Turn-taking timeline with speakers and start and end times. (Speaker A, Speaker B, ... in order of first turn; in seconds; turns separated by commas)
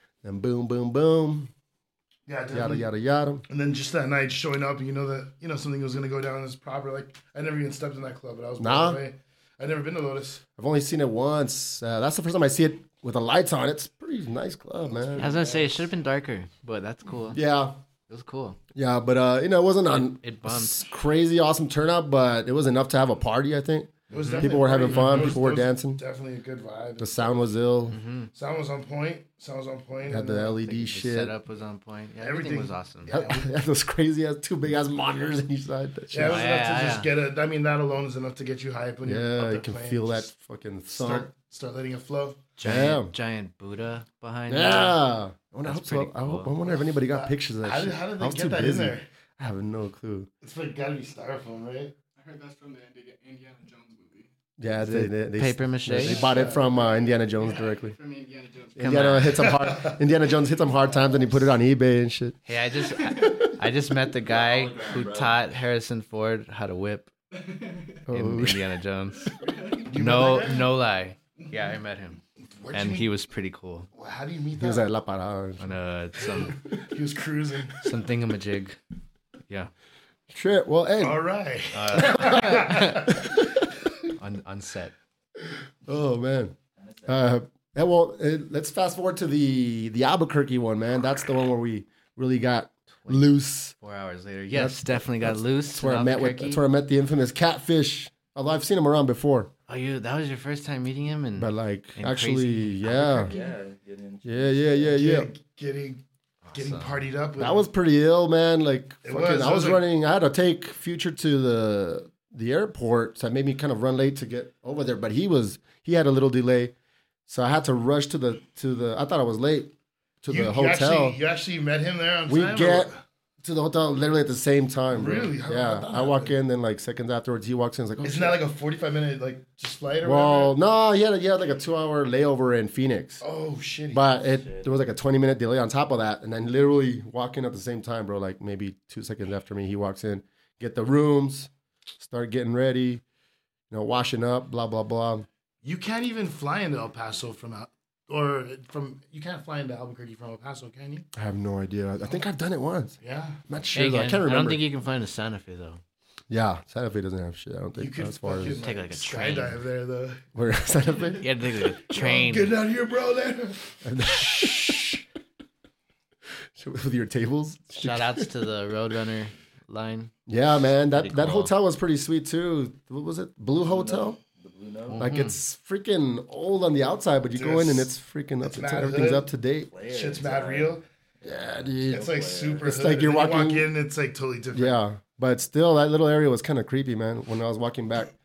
Speaker A: 0.2-1.5, Speaker B: 2.3-2.9, Speaker A: 2.5-3.5, Speaker B: 3.5-10.4, Speaker A: 8.6-9.0, Speaker A: 10.6-15.3, Speaker B: 15.0-15.8, Speaker C: 15.2-17.4, Speaker A: 17.3-17.8, Speaker C: 18.1-18.6, Speaker A: 18.8-26.0, Speaker C: 20.2-20.8, Speaker C: 24.1-25.4, Speaker B: 24.1-27.4, Speaker A: 27.0-28.0, Speaker C: 27.9-28.3, Speaker B: 28.3-30.6, Speaker A: 30.1-31.3, Speaker C: 30.6-33.1, Speaker B: 32.2-33.5, Speaker A: 33.1-36.4, Speaker B: 36.1-40.3, Speaker C: 36.3-37.1, Speaker A: 39.0-41.3, Speaker B: 40.9-42.4, Speaker C: 42.6-45.0, Speaker A: 42.6-43.1, Speaker A: 44.5-50.3, Speaker C: 45.6-46.5, Speaker B: 47.1-49.0, Speaker B: 50.4-51.9, Speaker D: 52.2-54.3, Speaker A: 54.6-58.0, Speaker C: 54.8-56.2, Speaker B: 55.9-56.6, Speaker D: 56.0-59.1, Speaker A: 58.8-62.4, Speaker C: 58.8-59.5, Speaker B: 59.3-60.0, Speaker D: 60.6-61.5, Speaker C: 62.5-67.1, Speaker D: 63.0-63.5, Speaker A: 63.1-63.4, Speaker E: 64.2-65.4, Speaker D: 67.3-68.0, Speaker A: 68.1-68.7, Speaker C: 68.1-69.3, Speaker D: 69.3-69.9, Speaker B: 69.9-70.7, Speaker C: 69.9-72.2, Speaker B: 72.6-73.1, Speaker C: 72.7-73.9, Speaker B: 73.9-74.8, Speaker A: 74.6-75.7, Speaker C: 75.6-76.6, Speaker B: 76.4-77.8, Speaker C: 77.8-78.8, Speaker A: 80.3-81.2, Speaker B: 81.0-83.4, Speaker C: 81.7-83.3, Speaker A: 83.1-83.4, Speaker C: 84.2-84.9, Speaker A: 85.9-86.5, Speaker E: 86.8-87.1, Speaker A: 87.1-93.8, Speaker C: 93.0-96.6, Speaker A: 94.5-99.5, Speaker C: 99.7-103.5, Speaker A: 101.4-103.3, Speaker E: 103.3-104.9, Speaker A: 104.2-105.3, Speaker B: 104.9-106.0, Speaker C: 106.4-107.0, Speaker B: 106.5-107.7, Speaker A: 107.4-116.7, Speaker B: 109.0-109.8, Speaker A: 117.3-119.7, Speaker A: 120.2-121.2, Speaker B: 120.3-123.0, Speaker A: 122.3-122.9, Speaker A: 123.4-128.4, Speaker B: 124.9-126.4, Speaker B: 128.0-130.6, Speaker A: 130.0-133.2, Speaker B: 133.2-134.0, Speaker A: 133.9-141.5, Speaker E: 134.2-134.7, Speaker A: 142.0-143.0, Speaker A: 143.7-145.3, Speaker B: 145.6-151.1, Speaker A: 151.2-153.0, Speaker B: 153.0-153.4, Speaker A: 153.5-154.6, Speaker C: 153.7-155.8, Speaker A: 156.3-158.6, Speaker B: 157.8-160.2, Speaker C: 158.4-159.6, Speaker A: 160.3-161.2, Speaker C: 161.1-162.5, Speaker B: 161.9-163.8, Speaker A: 163.8-165.0, Speaker A: 166.6-168.5, Speaker C: 167.8-170.1, Speaker A: 170.3-174.2, Speaker C: 171.0-171.5, Speaker E: 173.6-175.0, Speaker C: 174.9-175.3, Speaker A: 175.0-179.7, Speaker B: 177.3-177.9, Speaker B: 178.4-179.3, Speaker E: 179.7-182.7, Speaker B: 179.9-180.8, Speaker A: 181.2-182.1, Speaker B: 181.9-184.8, Speaker A: 182.6-183.7, Speaker A: 184.5-188.1